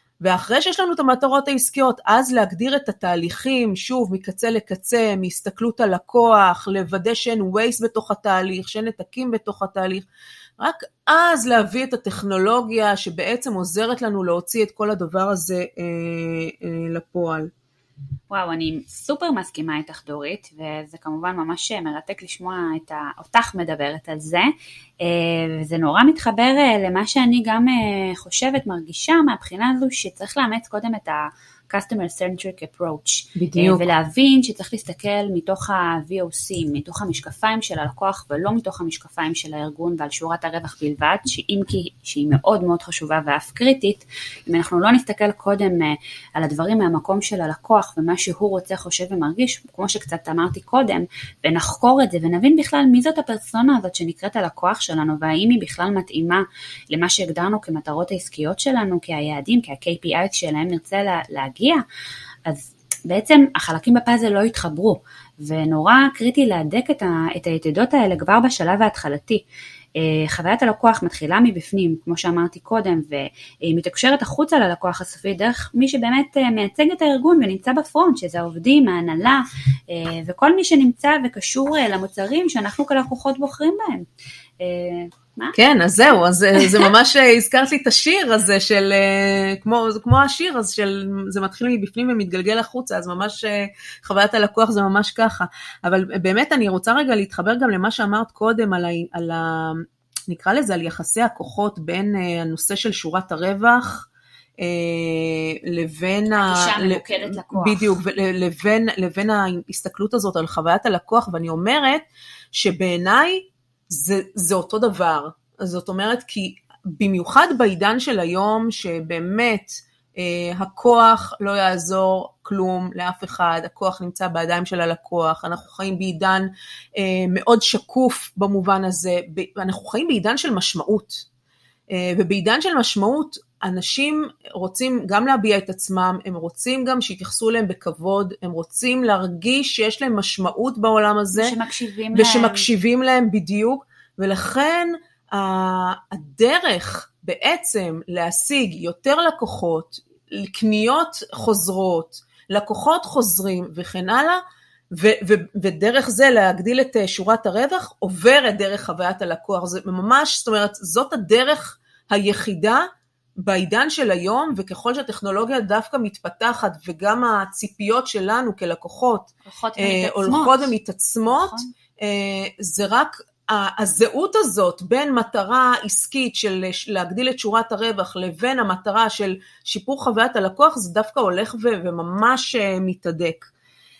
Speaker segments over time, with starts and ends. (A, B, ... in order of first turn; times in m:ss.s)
0:00.2-0:10.1 A
0:10.6-0:17.5 A
0:18.3-0:24.5 B
0:25.0-1:01.8 B
0:33.4-0:33.8 A
1:02.5-1:09.4 B
1:10.0-1:24.0 B
1:24.6-1:25.6 B
1:25.6-1:44.1 A
1:26.6-1:26.9 B
1:44.6-2:11.2 A
1:46.3-1:47.9 B
2:11.9-2:21.6 A
2:21.3-2:22.7 B
2:22.1-2:34.4 A
2:34.9-2:42.8 A
2:43.4-3:03.5 A
2:49.4-2:50.8 B
2:51.3-2:51.7 B